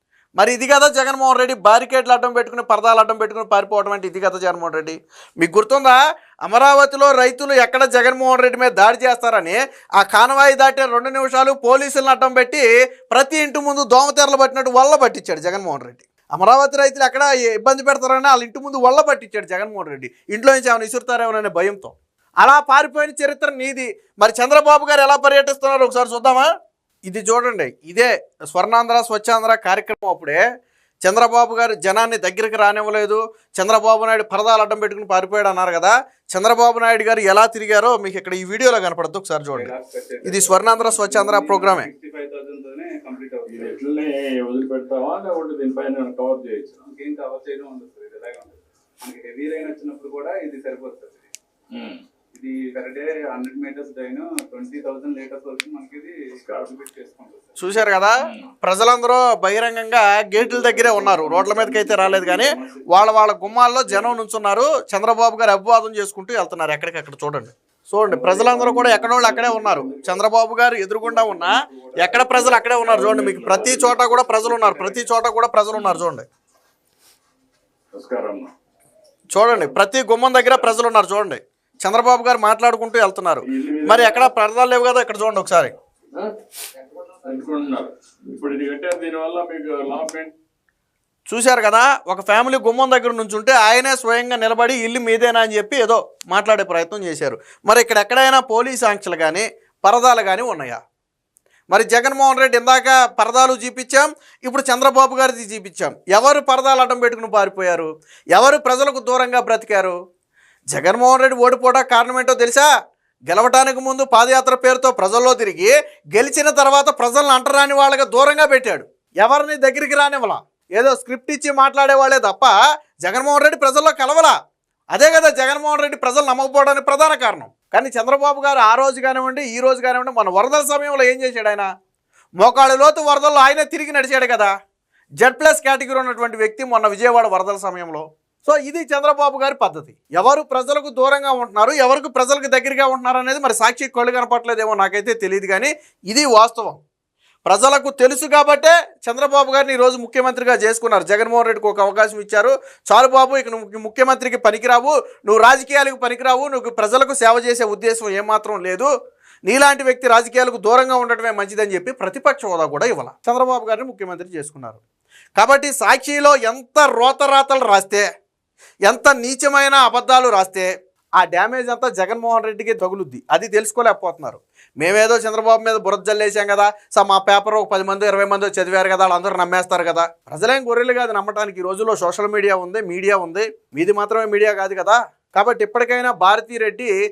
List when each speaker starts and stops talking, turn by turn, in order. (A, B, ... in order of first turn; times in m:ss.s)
0:00.4-0:26.5 A
0:27.0-0:30.4 A
0:31.0-0:39.7 A
0:39.5-0:43.8 B
0:40.2-0:41.9 A
0:43.4-0:46.9 C
0:46.8-0:51.3 B
0:51.7-0:52.0 C
0:52.3-0:57.8 B
0:56.4-0:56.7 C
0:57.6-1:16.3 A
1:00.4-1:04.2 B
1:08.1-1:10.1 C
1:08.3-1:10.0 B
1:11.0-1:15.1 B
1:12.3-1:14.0 C
1:17.9-1:18.5 C
1:19.3-1:25.7 A
1:23.4-1:24.3 C
1:27.2-1:30.3 C
1:31.3-1:40.8 A
1:41.7-1:50.0 A
1:50.7-1:52.7 A
1:53.3-2:04.3 A
2:04.9-2:11.7 A
2:12.4-2:14.5 A
2:15.2-2:26.8 A
2:27.4-2:38.9 A
2:39.5-2:44.8 A
2:45.4-2:48.0 A
2:48.8-3:06.9 A